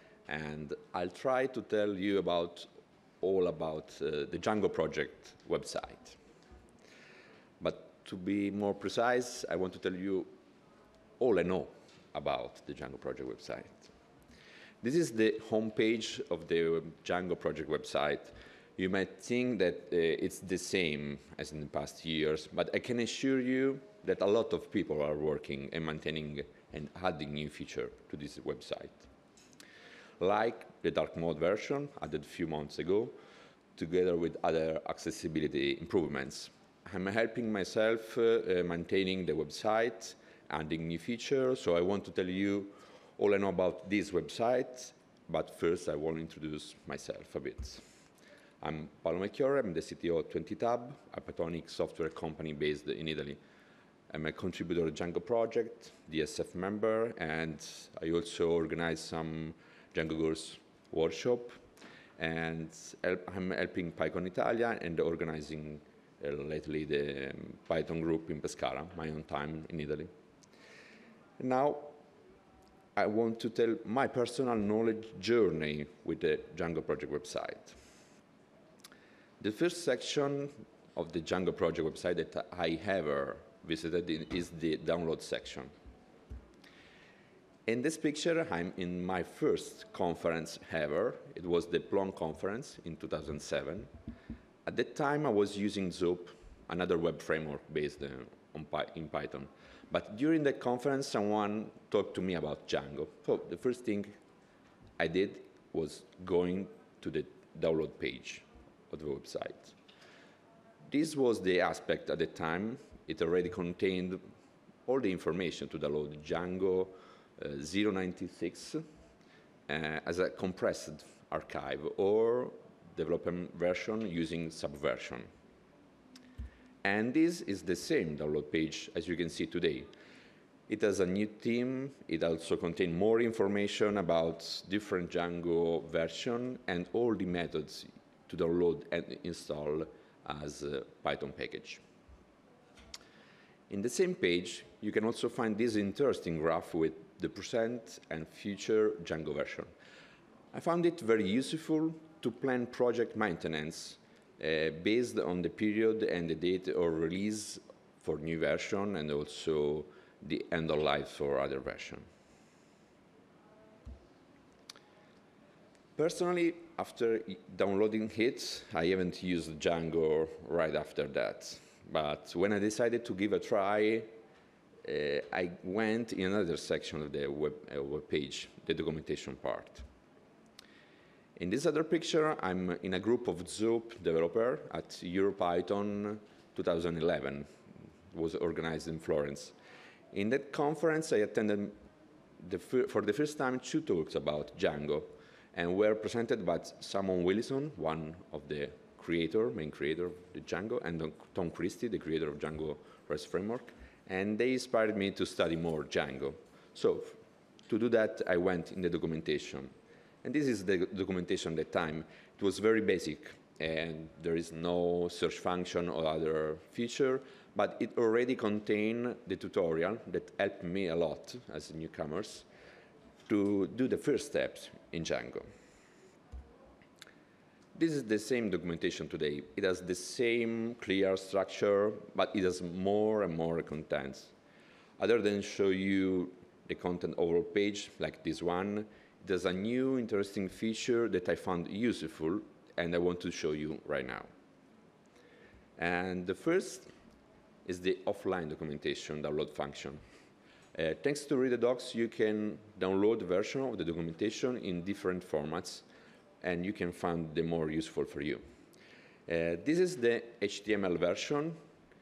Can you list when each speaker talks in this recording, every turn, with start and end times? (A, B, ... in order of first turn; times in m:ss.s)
0:00.3-0:02.7 A
0:03.2-0:06.2 A
0:07.6-0:10.3 A
0:11.2-0:13.9 A
0:14.8-0:29.1 A
0:30.2-0:33.2 A
0:33.8-0:47.8 A
0:48.6-0:53.4 A
0:54.1-1:01.6 A
1:02.2-1:10.1 A
1:11.4-1:11.9 A
1:13.0-1:17.8 A
1:19.4-1:25.7 A
1:27.7-1:33.9 A
1:34.6-1:44.1 A
1:45.0-1:49.8 A
1:50.9-1:54.2 A
1:54.9-1:58.8 A
1:59.7-2:05.3 A
2:06.8-2:09.9 A
2:10.7-2:21.8 A
2:23.7-2:29.7 A
2:30.5-2:42.1 A
2:46.0-2:54.1 A
2:54.8-2:59.8 A
3:01.4-3:07.5 A
3:08.1-3:09.5 A
3:10.1-3:11.8 A
3:12.4-3:29.7 A
3:30.2-3:42.5 A
3:43.3-3:45.5 A
3:47.8-3:54.3 A
3:55.0-4:04.3 A
4:05.8-4:06.9 A
4:07.7-4:10.0 A
4:10.8-4:15.8 A
4:16.4-4:18.4 A
4:19.3-4:21.6 A